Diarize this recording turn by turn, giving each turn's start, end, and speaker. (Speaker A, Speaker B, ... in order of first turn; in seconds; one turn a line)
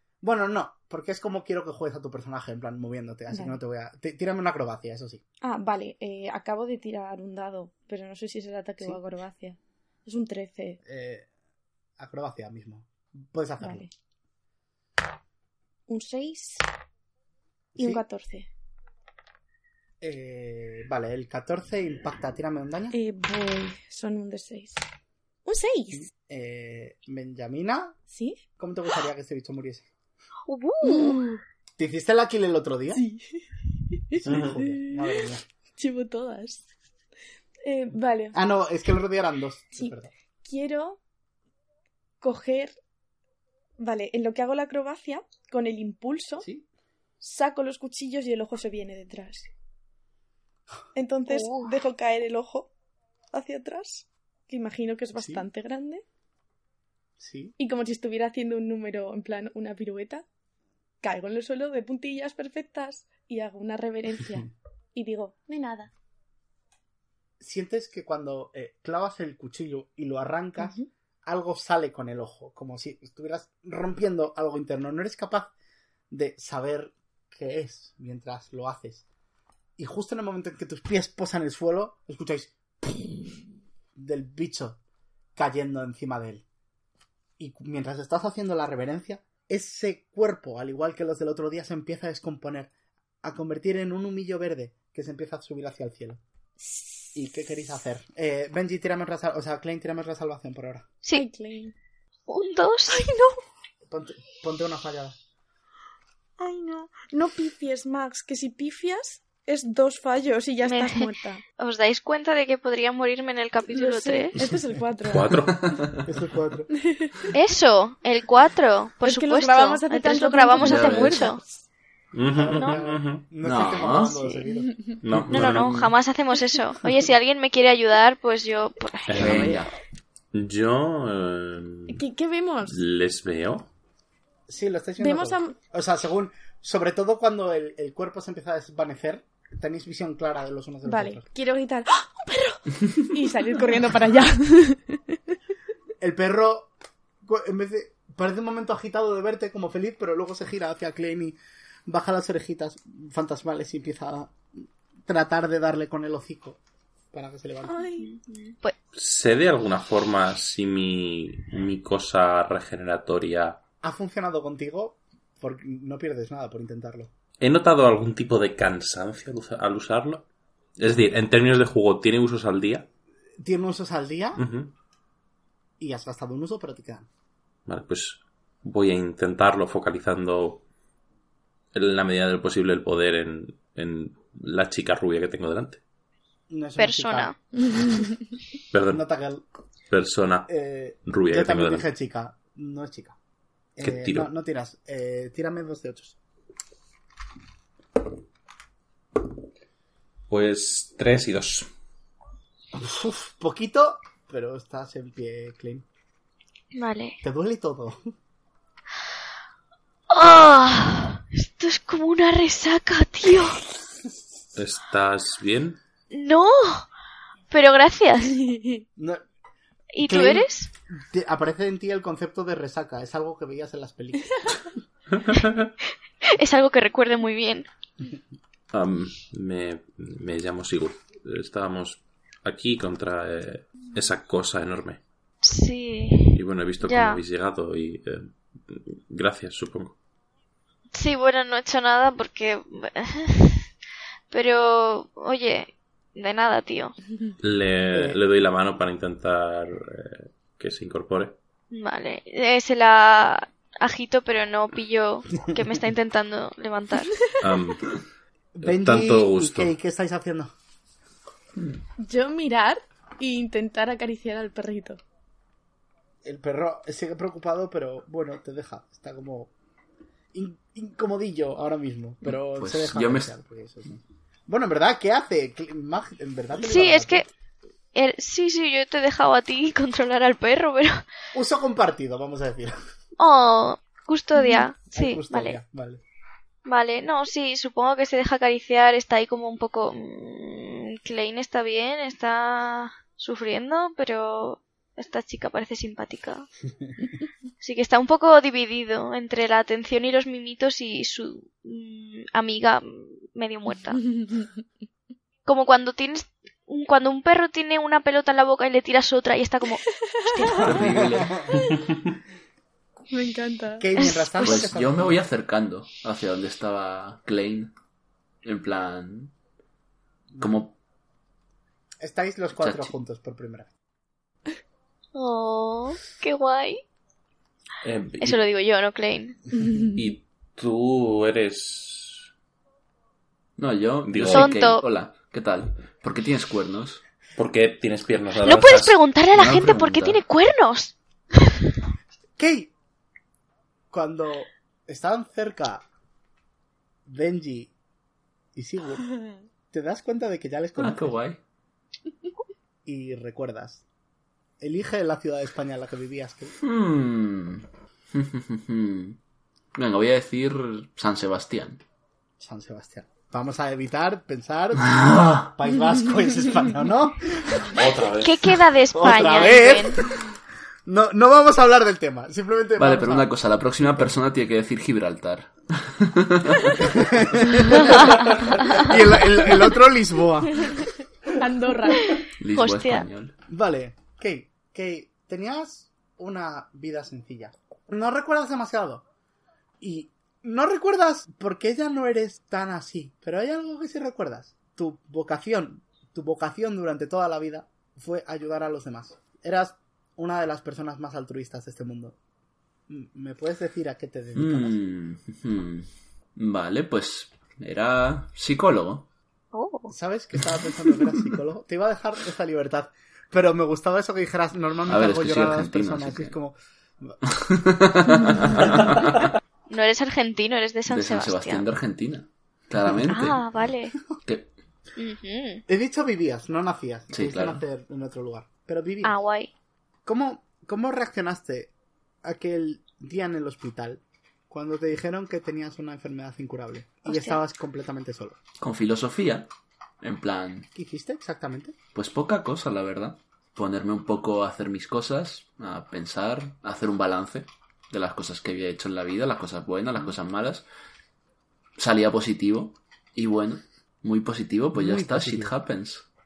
Speaker A: 0.2-5.2
Speaker B: 3.3-3.6
Speaker B: 5.4-10.8
Speaker A: 10.8-11.3
Speaker A: 12.0-13.8
Speaker B: 13.6-13.9
Speaker B: 15.9-16.6
Speaker A: 17.8-18.0
Speaker B: 17.8-18.5
Speaker A: 20.0-22.9
Speaker B: 22.9-24.8
Speaker B: 25.4-26.1
Speaker A: 25.9-28.0
Speaker B: 28.1-28.4
Speaker A: 28.6-29.9
Speaker C: 30.5-31.2
Speaker B: 30.8-31.4
Speaker A: 31.8-33.0
Speaker B: 32.9-35.1
Speaker A: 34.1-35.4
Speaker D: 34.3-34.5
Speaker B: 35.8-36.6
Speaker B: 37.6-38.4
Speaker A: 38.3-40.1
Speaker B: 39.8-41.0
Speaker B: 42.2-42.8
Speaker B: 43.8-46.5
Speaker A: 46.4-46.6
Speaker B: 47.2-49.5
Speaker B: 50.9-52.7
Speaker C: 51.3-51.8
Speaker B: 53.3-56.0
Speaker A: 55.1-55.5
Speaker A: 57.2-57.5
Speaker B: 57.6-60.2
Speaker B: 61.0-65.9
Speaker A: 67.4-75.5
Speaker B: 70.6-70.9
Speaker A: 76.1-79.0
Speaker A: 79.8-83.4
Speaker A: 84.0-84.8
Speaker A: 85.3-86.4
Speaker A: 87.4-92.7
Speaker A: 93.2-96.2
Speaker B: 96.6-97.1
Speaker A: 97.1-100.9
Speaker B: 101.1-101.7
Speaker C: 102.3-103.1
Speaker B: 102.9-103.4
Speaker A: 103.9-105.2
Speaker B: 106.4-111.4
Speaker C: 110.6-114.4
Speaker B: 113.7-115.4
Speaker D: 115.1-115.8
Speaker E: 115.5-116.0
Speaker A: 116.0-116.7
Speaker B: 116.8-117.3
Speaker C: 117.3-121.4
Speaker B: 119.0-121.5
Speaker E: 120.6-121.2
Speaker D: 122.1-123.2
Speaker A: 122.2-124.8
Speaker E: 123.4-124.2
Speaker D: 125.0-125.8
Speaker C: 125.3-129.6
Speaker E: 125.5-125.9
Speaker D: 129.1-129.6
Speaker E: 129.2-129.7
Speaker D: 130.3-132.0
Speaker B: 131.9-132.8
Speaker D: 132.6-133.7
Speaker A: 134.5-141.2
Speaker B: 135.0-135.6
Speaker B: 140.8-145.2
Speaker A: 146.0-146.7
Speaker A: 147.2-151.3
Speaker A: 151.9-154.4
Speaker A: 155.1-156.6
Speaker A: 157.1-157.8
Speaker B: 157.7-158.1
Speaker C: 158.0-158.8
Speaker D: 158.9-163.6
Speaker A: 163.8-167.1
Speaker D: 167.4-170.2
Speaker D: 170.8-172.9
Speaker A: 173.4-174.4
Speaker D: 174.4-174.7
Speaker A: 175.8-177.1
Speaker D: 177.7-180.6
Speaker D: 181.7-185.8
Speaker A: 186.5-187.3
Speaker C: 186.8-187.3
Speaker B: 187.7-188.1
Speaker D: 188.7-189.0
Speaker A: 188.9-189.4
Speaker D: 189.9-190.5
Speaker A: 190.5-193.2
Speaker D: 191.1-191.9
Speaker A: 193.8-196.2
Speaker D: 193.8-194.3
Speaker D: 200.3-201.7
Speaker A: 202.7-205.8
Speaker C: 206.7-207.2
Speaker A: 207.2-208.1
Speaker C: 210.1-213.7
Speaker D: 214.6-215.8
Speaker C: 216.1-216.8
Speaker C: 217.5-218.4
Speaker B: 218.4-218.8
Speaker A: 219.0-219.2
Speaker C: 219.9-220.7
Speaker A: 220.0-224.4
Speaker D: 225.2-225.7
Speaker C: 226.3-227.7
Speaker D: 228.7-235.0
Speaker C: 235.4-237.2
Speaker D: 236.3-239.9
Speaker C: 240.9-243.7
Speaker C: 244.3-246.9
Speaker D: 247.4-251.3
Speaker A: 247.9-248.2
Speaker C: 251.7-257.3
Speaker D: 257.4-258.0
Speaker A: 258.6-260.5
Speaker D: 258.6-259.7
Speaker B: 262.0-265.0
Speaker A: 266.2-269.5
Speaker A: 270.3-277.2
Speaker E: 272.3-273.3
Speaker C: 276.6-277.2
Speaker C: 277.9-281.0
Speaker A: 281.3-282.8
Speaker C: 283.2-285.6
Speaker B: 284.4-284.6
Speaker A: 284.9-286.0
Speaker C: 286.6-296.5
Speaker C: 297.6-304.1
Speaker B: 304.2-304.5
Speaker C: 305.4-310.7
Speaker B: 310.2-310.6
Speaker E: 310.6-311.5
Speaker A: 310.7-311.5
Speaker D: 311.7-312.0
Speaker B: 313.1-314.0
Speaker A: 313.8-315.2
Speaker C: 313.9-314.6
Speaker E: 314.4-317.7
Speaker E: 318.4-319.3
Speaker A: 320.3-320.6
Speaker E: 320.4-320.8
Speaker A: 322.0-323.7
Speaker E: 322.6-322.9
Speaker C: 325.1-326.8
Speaker D: 327.8-328.4
Speaker C: 328.2-329.5
Speaker D: 329.9-332.3
Speaker E: 333.6-337.0
Speaker D: 334.1-334.6
Speaker C: 334.3-334.8
Speaker D: 337.4-339.0
Speaker C: 338.4-340.9
Speaker E: 339.3-340.2
Speaker A: 342.4-342.7
Speaker A: 343.9-345.9
Speaker A: 347.1-347.7
Speaker A: 348.5-349.1
Speaker A: 349.7-351.2
Speaker E: 350.8-351.4
Speaker A: 352.9-353.8
Speaker A: 354.6-356.5
Speaker E: 356.6-359.2
Speaker E: 359.7-361.8
Speaker A: 362.4-367.8
Speaker E: 364.8-365.5
Speaker D: 367.7-368.4
Speaker C: 368.2-370.0
Speaker A: 368.9-370.0
Speaker A: 370.9-373.3
Speaker E: 372.8-376.9
Speaker A: 376.8-380.8
Speaker B: 381.4-382.2
Speaker C: 382.0-383.0
Speaker E: 382.4-383.3
Speaker A: 383.5-389.0
Speaker A: 389.8-402.1
Speaker A: 402.9-404.8
Speaker E: 404.3-409.1
Speaker C: 409.5-409.9
Speaker A: 409.9-417.2
Speaker E: 414.9-416.4
Speaker E: 417.2-419.2
Speaker C: 419.7-421.6
Speaker E: 420.9-423.4
Speaker C: 423.1-424.0
Speaker E: 424.2-424.5
Speaker C: 424.9-425.6
Speaker A: 425.7-429.1
Speaker E: 427.1-427.6
Speaker C: 429.0-429.5
Speaker A: 430.1-431.7
Speaker A: 432.2-438.4
Speaker C: 437.1-437.4
Speaker E: 438.6-439.5
Speaker E: 440.0-440.7
Speaker A: 440.7-441.7
Speaker E: 441.9-450.6
Speaker E: 451.8-456.0
Speaker A: 454.7-455.5